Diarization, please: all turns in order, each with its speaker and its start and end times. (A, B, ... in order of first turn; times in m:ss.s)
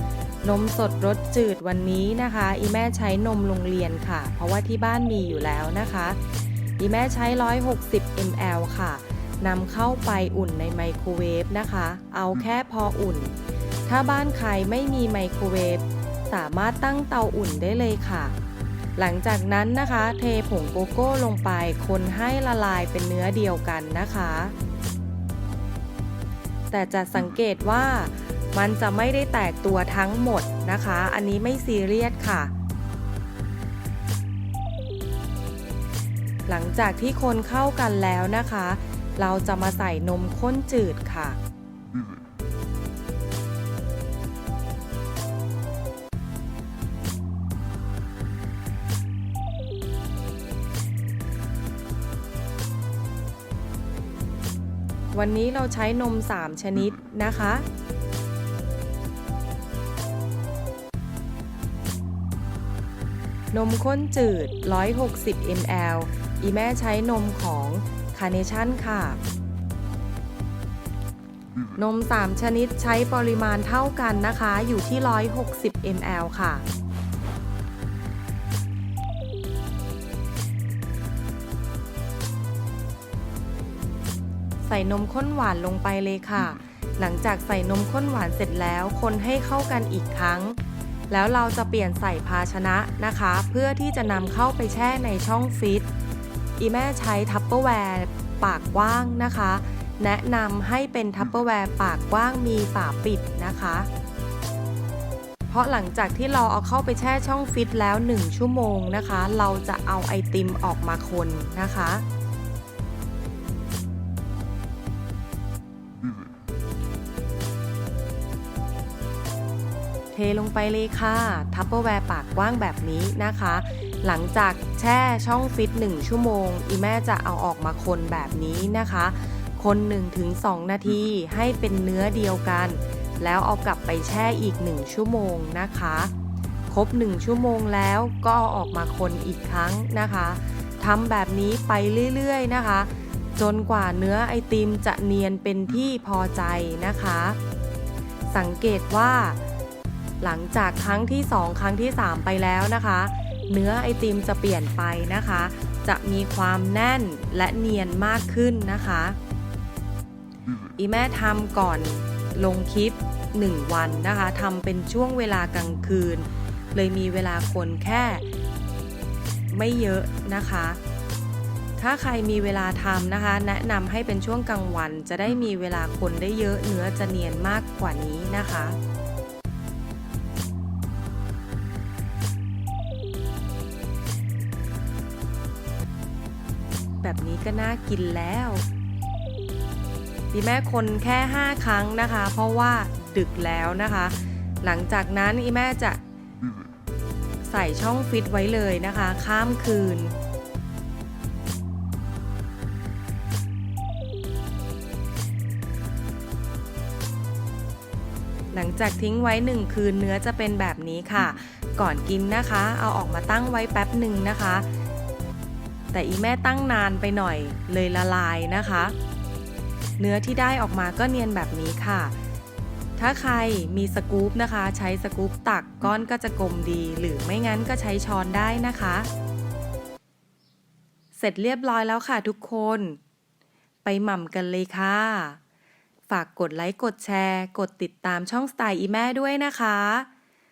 0:00.4-0:06.2 A
0:06.8-0:13.3 A
0:13.8-0:18.3 A
0:19.0-0:24.5 A
0:26.7-0:32.5 A
0:36.5-0:41.4 A
0:55.1-0:57.6 A
1:03.5-1:09.2 A
1:11.8-1:16.6 A
1:24.6-1:30.6 A
1:31.1-1:35.9 A
1:36.6-1:43.9 A
1:45.5-1:52.0 A
2:00.1-2:16.1 A
2:16.7-2:27.4 A
2:28.3-2:29.4 A
2:30.2-2:39.2 A
2:40.8-2:48.2 A
2:49.5-2:50.8 A
2:51.8-2:58.8 A
3:07.0-3:08.6 A
3:10.3-3:16.0 A
3:17.4-3:20.2 A
3:28.5-3:34.7 A
3:35.9-3:38.9 A
3:40.0-3:42.1 A
3:43.0-3:49.1 A
3:51.1-3:53.0 A
3:53.8-3:55.4 A
3:56.1-4:00.1 A